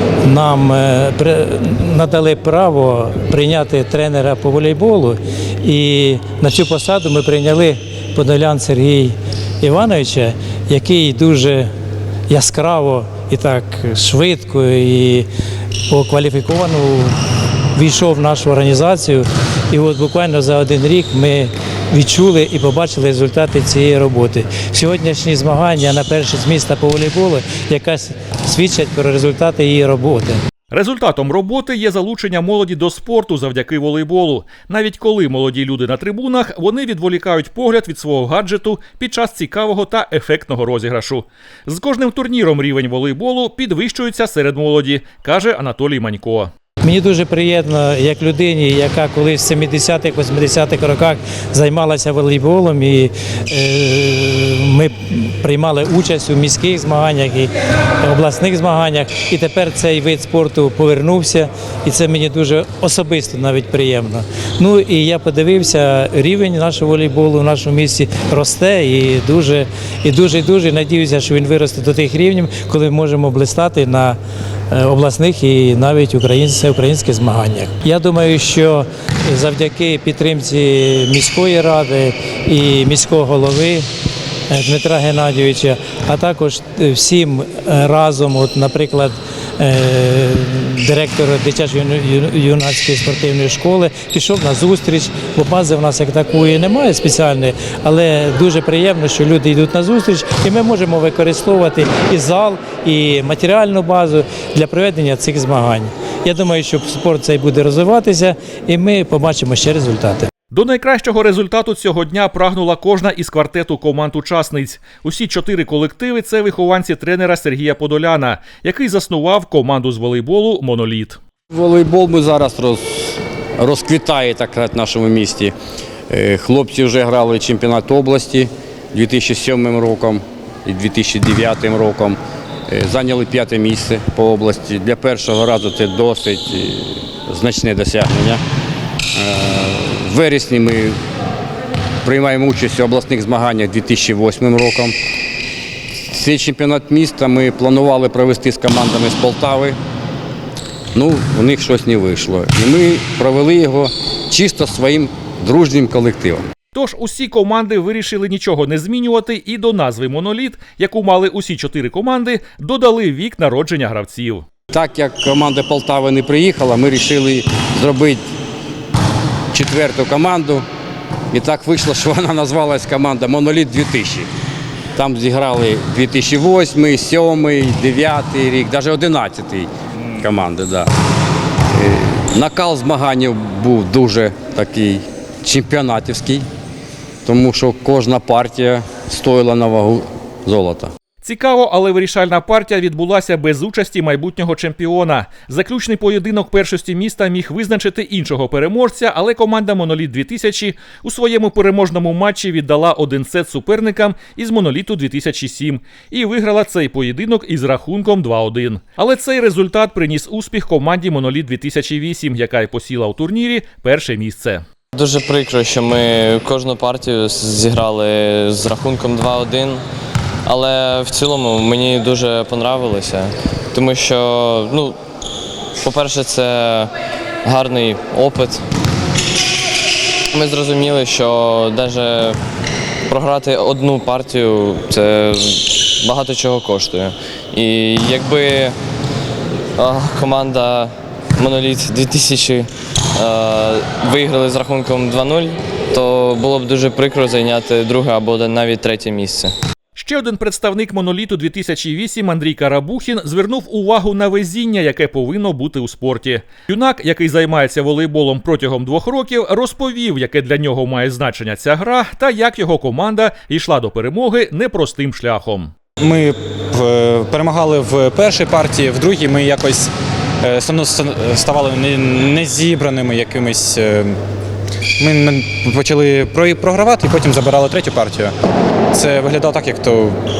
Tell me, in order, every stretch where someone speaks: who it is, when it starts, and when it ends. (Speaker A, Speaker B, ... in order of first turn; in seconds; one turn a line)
Speaker A: 0.2-11.7
Speaker A: 12.3-15.3
Speaker A: 15.9-17.2
Speaker A: 17.8-30.4
Speaker B: 30.7-46.5
Speaker A: 46.8-74.2
Speaker A: 74.7-83.9
Speaker A: 84.5-110.3
Speaker B: 110.5-121.2
Speaker C: 121.5-125.5
Speaker C: 126.1-132.2
Speaker C: 132.7-138.4
Speaker C: 139.2-141.0
Speaker C: 142.1-144.9
Speaker C: 146.1-149.8
Speaker C: 150.9-156.4
Speaker B: 156.7-164.4
Speaker C: 164.7-168.3
Speaker C: 169.5-170.7
Speaker C: 171.3-174.3
Speaker C: 175.0-180.9
Speaker C: 181.7-186.5
Speaker C: 187.2-190.9
Speaker B: 191.2-214.6
Speaker D: 214.9-219.8
Speaker D: 220.5-225.0
Speaker D: 225.8-228.7
Speaker D: 230.3-232.4
Speaker D: 233.1-238.8
Speaker D: 239.8-249.5
Speaker B: 250.0-265.7
Speaker E: 266.0-269.9
Speaker E: 270.4-274.2
Speaker E: 275.0-278.3
Speaker E: 278.9-280.2